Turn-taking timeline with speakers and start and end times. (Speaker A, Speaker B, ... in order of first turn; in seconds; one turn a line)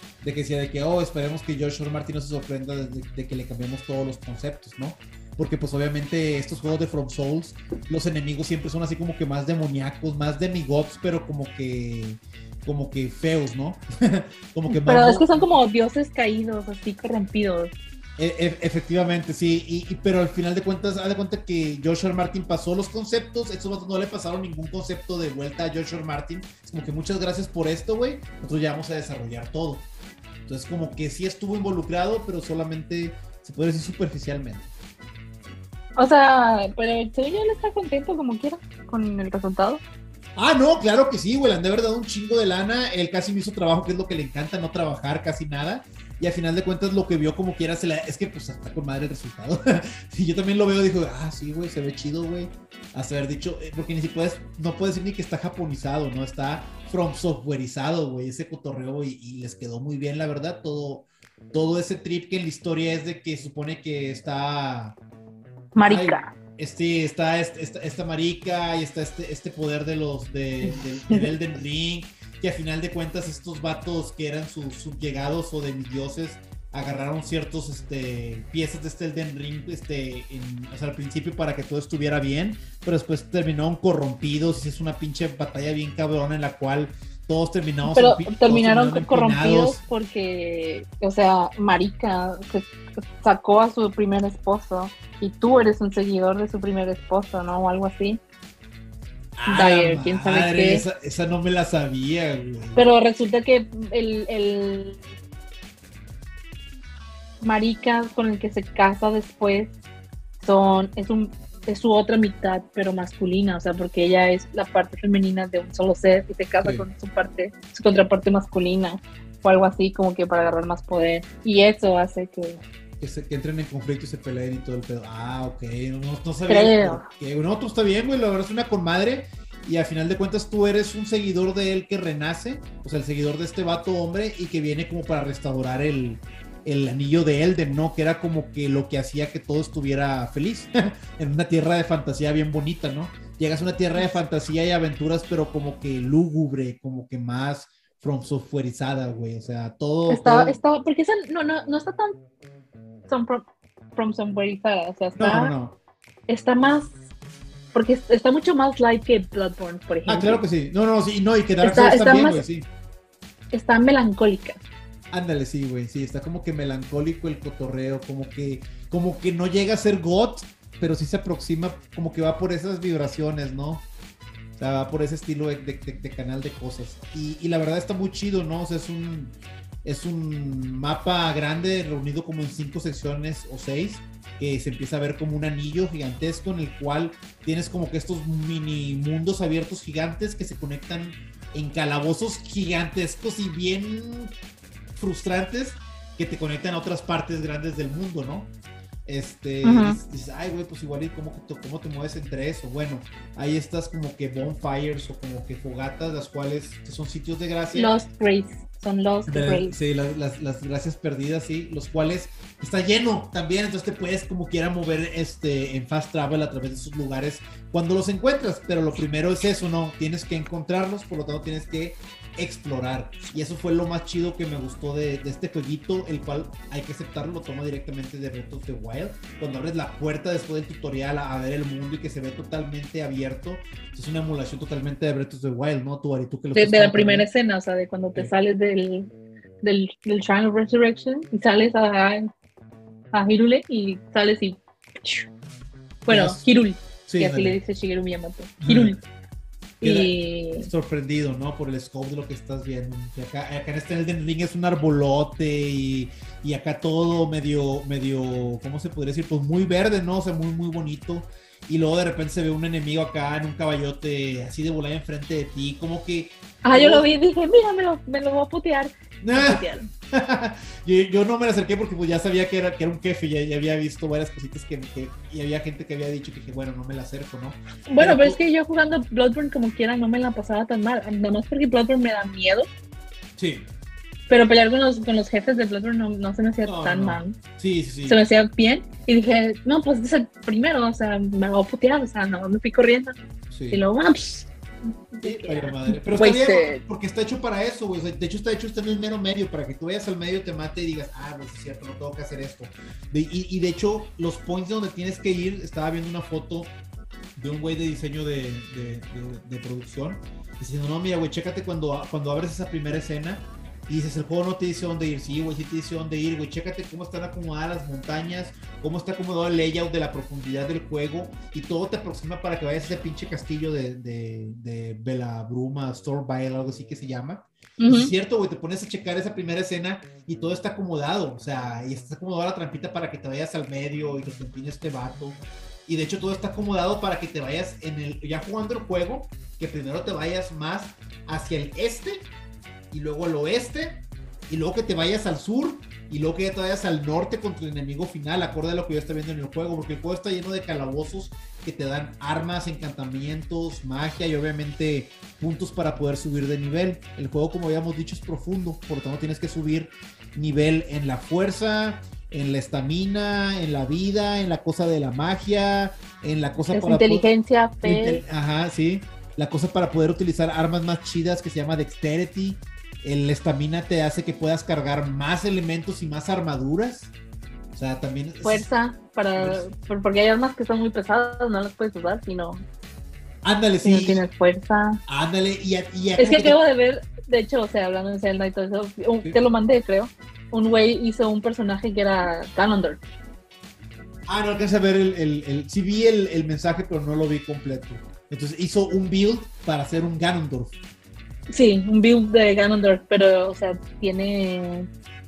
Speaker A: 0.2-15.4
Speaker B: 14.7-17.7
Speaker A: 18.2-29.9
Speaker A: 30.5-34.7
Speaker B: 36.0-39.8
Speaker A: 40.4-65.0
Speaker B: 65.7-66.3
Speaker A: 65.8-89.8
Speaker B: 87.8-98.2
Speaker A: 99.3-102.8
Speaker B: 99.5-100.8
Speaker B: 102.7-105.0
Speaker B: 107.4-109.7
Speaker B: 110.4-122.6
Speaker A: 123.0-150.6
Speaker B: 126.5-127.1
Speaker B: 150.1-152.2
Speaker B: 153.1-153.4
Speaker B: 153.9-155.5
Speaker A: 155.2-155.8
Speaker B: 156.3-157.0
Speaker B: 157.7-160.4
Speaker A: 160.1-162.7
Speaker B: 161.6-162.4
Speaker B: 163.5-164.6
Speaker A: 165.1-173.8
Speaker A: 174.6-194.3
Speaker A: 195.0-198.5
Speaker A: 199.1-207.9
Speaker B: 199.6-200.0
Speaker B: 207.7-209.7
Speaker A: 209.3-237.3
Speaker B: 236.5-239.1
Speaker B: 239.6-242.3
Speaker B: 243.1-245.3
Speaker B: 246.0-249.0
Speaker A: 246.1-246.4
Speaker A: 247.1-247.6
Speaker A: 248.6-249.0
Speaker B: 249.8-250.7
Speaker A: 249.8-267.1
Speaker B: 266.6-269.9
Speaker A: 269.2-278.4
Speaker B: 277.9-282.7
Speaker A: 283.4-283.7
Speaker B: 284.3-287.4
Speaker A: 286.6-288.2
Speaker B: 288.0-293.1
Speaker A: 293.5-293.8
Speaker B: 293.7-296.8
Speaker A: 295.2-306.7
Speaker A: 307.4-342.3
Speaker B: 327.8-328.1
Speaker A: 342.9-367.3
Speaker B: 366.7-368.2
Speaker A: 367.8-377.1
Speaker A: 377.7-378.7
Speaker B: 378.4-382.6
Speaker A: 379.4-379.6
Speaker A: 383.4-384.2
Speaker B: 383.8-385.0
Speaker A: 385.1-386.6
Speaker B: 386.2-393.0
Speaker A: 394.3-400.8
Speaker B: 401.5-404.9